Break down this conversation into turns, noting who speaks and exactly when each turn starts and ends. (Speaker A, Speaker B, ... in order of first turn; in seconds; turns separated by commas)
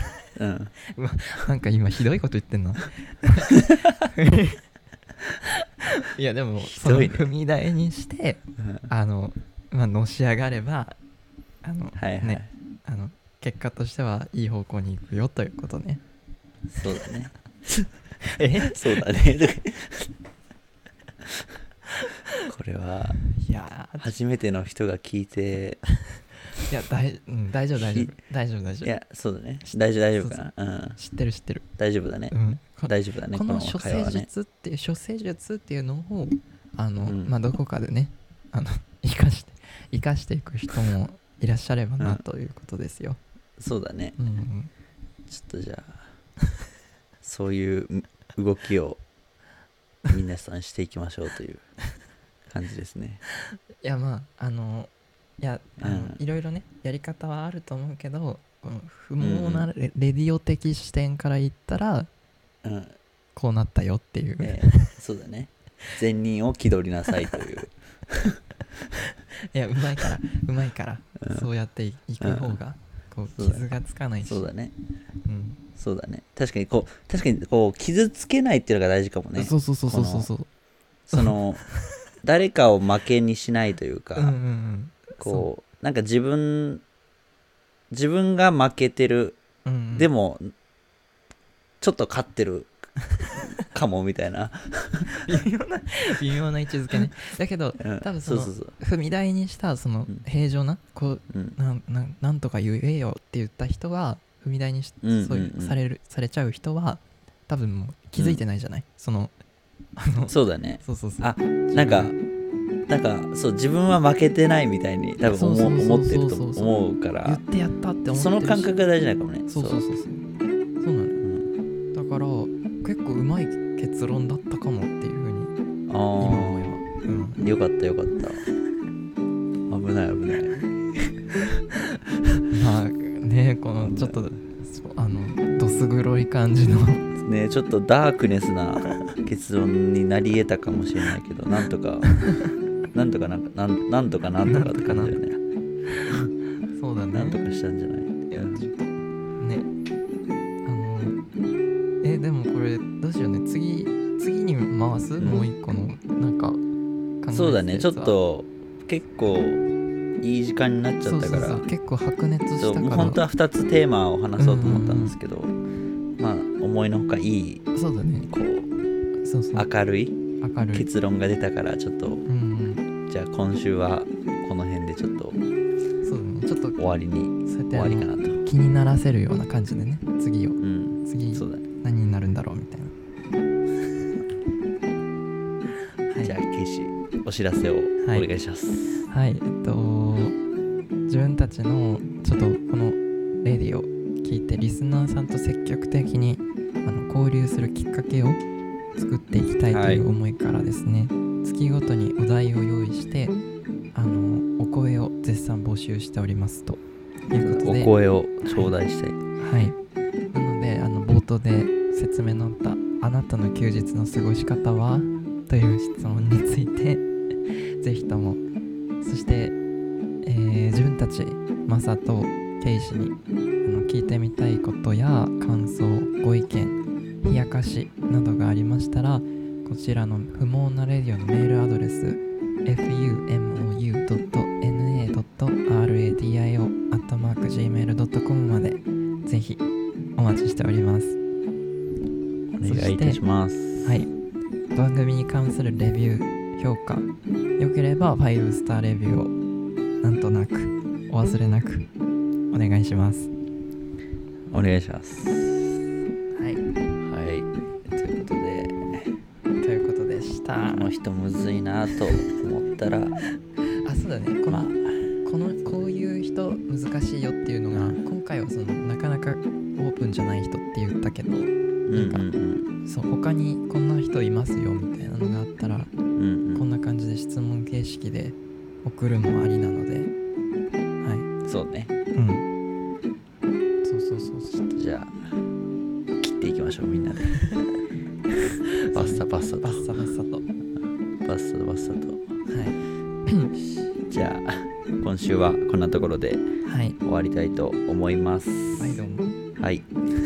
Speaker A: 0.4-0.7, Speaker B: 0.9-4.6, Speaker B: 5.4-11.0, Speaker A: 6.6-7.3, Speaker A: 8.6-8.9, Speaker B: 11.6-16.0, Speaker A: 12.0-12.5, Speaker A: 16.7-17.8, Speaker B: 18.3-19.0, Speaker A: 18.6-20.1, Speaker B: 22.0-22.4, Speaker A: 22.5-23.2, Speaker B: 23.3-24.1, Speaker A: 24.0-25.8, Speaker B: 26.7-28.9, Speaker A: 27.8-28.1, Speaker A: 28.8-31.0, Speaker B: 29.6-30.4, Speaker B: 30.9-31.6, Speaker A: 31.8-34.3, Speaker B: 32.3-43.2, Speaker A: 37.0-37.4, Speaker A: 43.6-44.2, Speaker B: 44.2-44.7, Speaker A: 45.3-46.1, Speaker A: 47.2-49.0, Speaker A: 50.1-51.6, Speaker A: 52.5-53.2, Speaker B: 53.8-54.9, Speaker B: 55.4-62.1, Speaker A: 55.8-56.2, Speaker A: 59.2-59.7, Speaker A: 62.6-63.0, Speaker B: 63.4-64.9, Speaker A: 64.4-68.4, Speaker B: 69.5-74.5, Speaker A: 71.2-71.5, Speaker A: 72.2-72.6, Speaker A: 73.4-73.6, Speaker A: 74.2-74.7, Speaker B: 75.2-75.6, Speaker A: 75.8-80.3, Speaker B: 79.4-80.5, Speaker A: 81.1-81.7, Speaker A: 82.2-84.4, Speaker B: 84.2-85.5, Speaker A: 85.2-86.8, Speaker A: 87.9-89.4, Speaker B: 89.6-90.1, Speaker A: 90.0-90.5, Speaker A: 91.8-92.8, Speaker A: 93.4-95.1, Speaker B: 95.1-109.3, Speaker A: 97.8-98.7, Speaker A: 101.3-101.6, Speaker A: 105.0-105.8, Speaker B: 110.0-112.1, Speaker A: 110.3-112.1, Speaker A: 112.9-117.4, Speaker B: 115.3-116.7, Speaker B: 117.2-118.7, Speaker A: 118.1-119.8, Speaker B: 119.5-120.3, Speaker B: 120.8-121.2, Speaker A: 121.2-121.5, Speaker B: 121.9-125.5, Speaker A: 125.9-126.8, Speaker B: 126.2-127.4, Speaker A: 127.4-128.4, Speaker A: 129.7-131.6, Speaker B: 132.5-137.1, Speaker A: 133.8-134.2, Speaker A: 137.2-142.2, Speaker B: 142.1-142.5, Speaker A: 142.9-145.4, Speaker B: 144.4-145.2, Speaker B: 146.7-147.6, Speaker A: 147.1-148.7, Speaker B: 148.3-149.7, Speaker B: 150.6-151.2, Speaker B: 152.0-156.6, Speaker A: 155.2-155.4, Speaker B: 157.2-158.1, Speaker A: 157.3-159.6, Speaker A: 160.2-161.7, Speaker B: 161.0-163.2, Speaker A: 162.6-165.5, Speaker B: 164.4-165.1, Speaker A: 166.2-167.6, Speaker B: 167.8-168.3, Speaker A: 168.3-168.7, Speaker B: 169.2-169.7, Speaker A: 169.6-170.2, Speaker B: 170.4-170.9, Speaker A: 170.7-172.2, Speaker B: 172.3-172.8, Speaker A: 173.1-175.4, Speaker B: 176.0-176.8, Speaker A: 176.8-178.4, Speaker B: 177.4-182.9, Speaker A: 180.6-181.6, Speaker B: 186.1-186.4, Speaker A: 186.2-189.1, Speaker B: 188.0-188.3, Speaker B: 189.1-190.4, Speaker B: 191.1-198.4, Speaker B: 199.0-203.3, Speaker A: 199.7-200.1, Speaker B: 203.9-207.9, Speaker A: 207.3-209.2, Speaker B: 208.4-208.7, Speaker B: 209.4-209.8, Speaker B: 210.3-218.4, Speaker B: 219.0-219.6, Speaker B: 220.2-239.6, Speaker B: 240.2-241.2, Speaker A: 242.6-244.0, Speaker B: 242.6-243.2, Speaker B: 243.8-244.1, Speaker B: 244.7-249.3, Speaker B: 250.0-251.9, Speaker B: 252.5-253.3, Speaker A: 254.5-255.8, Speaker B: 256.4-256.6, Speaker A: 257.0-259.1, Speaker B: 259.6-260.9, Speaker A: 260.7-263.2, Speaker B: 263.8-264.7, Speaker A: 264.5-265.2, Speaker B: 265.2-272.3, Speaker A: 271.9-272.7, Speaker B: 272.9-275.9, Speaker A: 276.1-276.6, Speaker B: 276.5-280.1, Speaker B: 281.0-281.3, Speaker A: 281.4-281.9, Speaker B: 282.1-282.4, Speaker B: 283.8-284.7, Speaker A: 284.7-285.2, Speaker A: 286.2-287.5, Speaker B: 287.4-287.8, Speaker A: 288.4-289.9, Speaker B: 288.7-290.4, Speaker A: 291.2-292.3, Speaker B: 292.5-293.5, Speaker A: 294.1-296.4, Speaker B: 296.6-296.9, Speaker A: 297.0-299.0, Speaker B: 298.8-299.3, Speaker A: 299.6-299.9